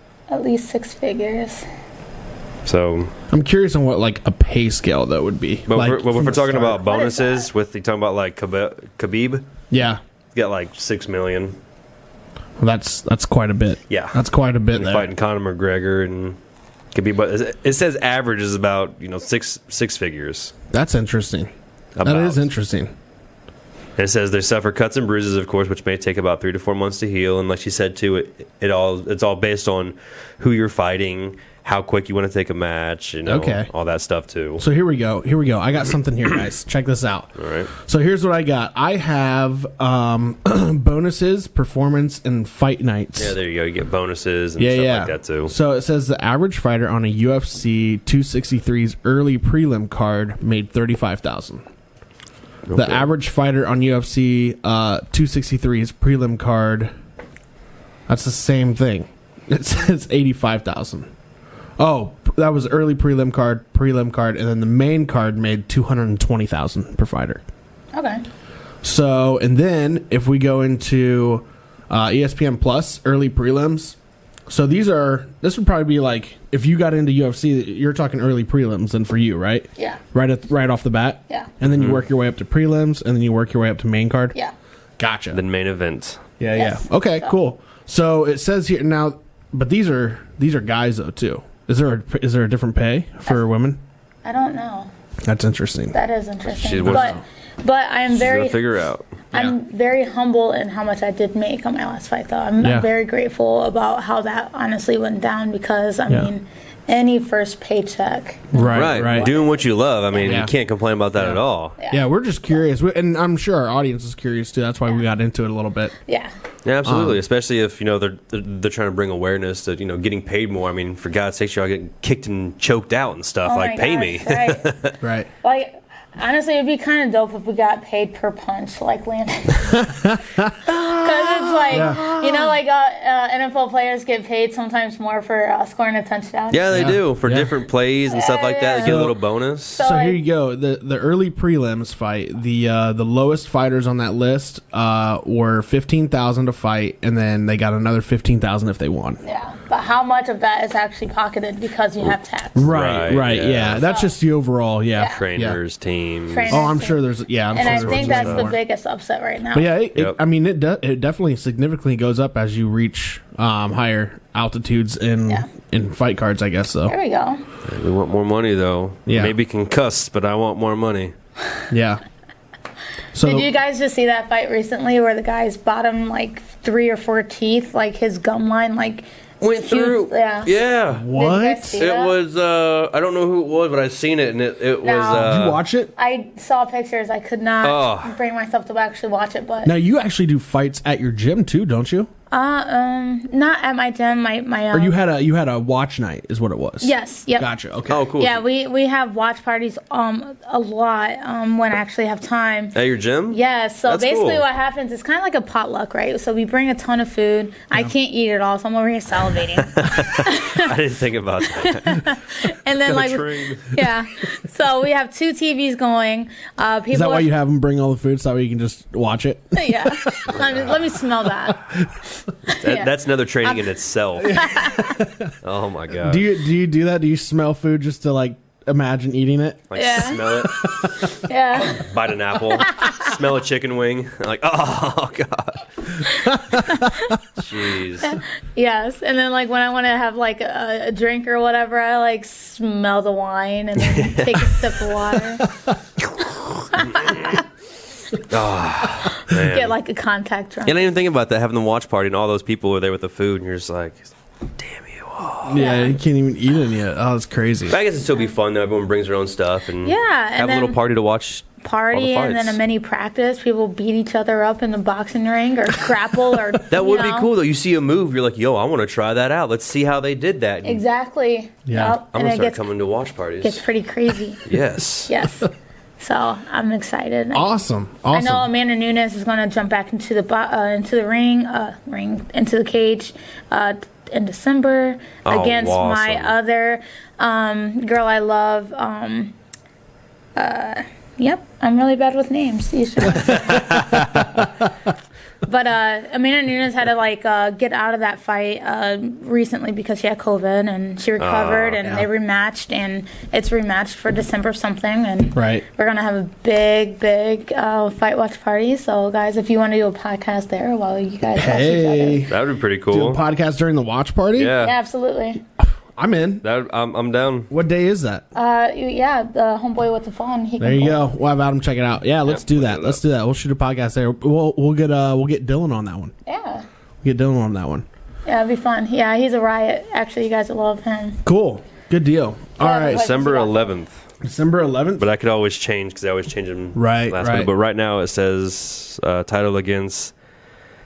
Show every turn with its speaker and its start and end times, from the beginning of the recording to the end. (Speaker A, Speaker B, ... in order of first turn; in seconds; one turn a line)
Speaker A: 0.3-1.6
Speaker B: 2.6-3.1
Speaker C: 3.3-6.8
Speaker B: 5.7-9.4
Speaker A: 6.8-7.5
Speaker C: 9.7-10.0
Speaker B: 10.3-11.6
Speaker C: 12.6-15.1
Speaker B: 13.9-14.2
Speaker B: 14.7-16.4
Speaker B: 16.9-20.5
Speaker C: 20.7-21.5
Speaker B: 21.9-22.5
Speaker C: 22.0-22.9
Speaker B: 24.0-34.6
Speaker C: 33.2-33.7
Speaker C: 34.6-43.3
Speaker B: 37.4-37.7
Speaker B: 43.2-45.5
Speaker C: 44.6-51.6
Speaker B: 52.7-53.0
Speaker C: 52.7-56.9
Speaker C: 58.1-61.1
Speaker C: 61.8-67.4
Speaker A: 67.9-68.2
Speaker C: 68.8-74.0
Speaker C: 74.5-84.3
Speaker B: 81.6-82.0
Speaker C: 85.0-85.4
Speaker B: 85.3-86.2
Speaker C: 86.4-93.8
Speaker A: 86.5-87.3
Speaker A: 94.2-94.9
Speaker C: 95.2-96.0
Speaker A: 95.9-98.6
Speaker B: 96.5-97.2
Speaker C: 96.8-97.2
Speaker B: 98.1-99.0
Speaker A: 99.3-109.6
Speaker C: 102.6-102.9
Speaker C: 108.5-109.3
Speaker B: 108.7-111.8
Speaker C: 110.2-110.5
Speaker C: 111.2-115.9
Speaker A: 111.8-112.1
Speaker A: 116.1-116.3
Speaker B: 116.6-125.0
Speaker C: 116.8-117.2
Speaker A: 123.5-124.7
Speaker C: 125.0-125.3
Speaker A: 125.4-129.9
Speaker C: 129.7-132.5
Speaker A: 130.7-136.9
Speaker B: 136.5-139.8
Speaker C: 136.7-137.5
Speaker A: 138.1-139.0
Speaker C: 138.8-139.2
Speaker A: 139.7-140.2
Speaker C: 139.8-149.2
Speaker A: 149.2-152.7
Speaker C: 152.5-155.6
Speaker B: 152.7-153.8
Speaker A: 153.8-154.1
Speaker A: 154.9-155.2
Speaker B: 155.1-156.7
Speaker A: 156.3-159.7
Speaker C: 156.5-158.6
Speaker B: 157.6-158.5
Speaker C: 159.5-166.9
Speaker A: 166.9-167.4
Speaker B: 167.6-171.1
Speaker C: 169.1-169.3
Speaker C: 171.7-172.0
Speaker C: 173.1-173.5
Speaker A: 173.2-180.5
Speaker B: 179.4-181.1
Speaker C: 180.9-181.8
Speaker A: 181.1-182.1
Speaker B: 181.8-185.6
Speaker A: 184.8-185.3
Speaker C: 185.1-185.9
Speaker A: 185.9-189.7
Speaker B: 187.6-188.1
Speaker C: 189.6-192.1
Speaker A: 192.3-194.9
Speaker C: 194.7-198.1
Speaker A: 196.8-197.5
Speaker B: 197.8-198.4
Speaker A: 198.2-202.8
Speaker B: 202.7-204.4
Speaker A: 203.3-210.7
Speaker B: 209.7-212.1
Speaker A: 211.6-217.3
Speaker B: 212.8-213.8
Speaker C: 216.9-220.4
Speaker A: 219.5-221.6
Speaker B: 220.3-220.8
Speaker A: 222.5-223.7
Speaker B: 222.6-224.5
Speaker A: 224.2-225.0
Speaker C: 224.3-225.3
Speaker B: 225.4-226.3
Speaker C: 226.0-229.7
Speaker B: 229.7-230.7
Speaker A: 229.7-230.5
Speaker C: 230.3-231.1
Speaker A: 231.1-231.9
Speaker B: 231.6-235.7
Speaker A: 232.6-233.1
Speaker A: 236.0-237.2
Speaker C: 236.3-237.1
Speaker B: 237.4-238.2
Speaker A: 238.0-245.5
Speaker B: 243.8-244.8
Speaker A: 246.7-247.4
Speaker B: 246.9-247.2
Speaker B: 248.3-249.8
Speaker A: 249.1-250.9
Speaker B: 250.6-255.6
Speaker C: 255.4-257.8
Speaker A: 255.5-255.9
Speaker B: 257.7-262.6
Speaker A: 259.8-260.8
Speaker A: 261.6-267.3
Speaker B: 266.7-270.8
Speaker A: 270.6-272.6
Speaker C: 271.6-272.0
Speaker B: 272.1-273.6
Speaker A: 273.4-274.4
Speaker B: 274.4-275.1
Speaker A: 275.1-277.5
Speaker C: 277.3-278.5
Speaker A: 278.1-289.3
Speaker B: 285.2-286.3
Speaker A: 290.4-293.8
Speaker B: 293.2-294.1
Speaker A: 295.4-312.3
Speaker B: 301.2-301.9
Speaker C: 305.3-305.6
Speaker C: 311.3-312.4
Speaker B: 312.3-313.2
Speaker C: 312.9-314.6
Speaker B: 314.4-314.8
Speaker A: 314.6-315.4
Speaker C: 316.0-316.4
Speaker B: 316.4-317.5
Speaker C: 317.5-318.2
Speaker A: 318.3-321.0
Speaker C: 320.6-326.1
Speaker B: 322.3-323.0
Speaker A: 326.2-326.6
Speaker C: 327.0-327.9
Speaker A: 328.2-331.2
Speaker C: 331.2-333.1
Speaker A: 332.6-333.8
Speaker B: 332.9-334.0
Speaker C: 334.2-335.1
Speaker B: 335.0-340.1
Speaker C: 336.7-337.5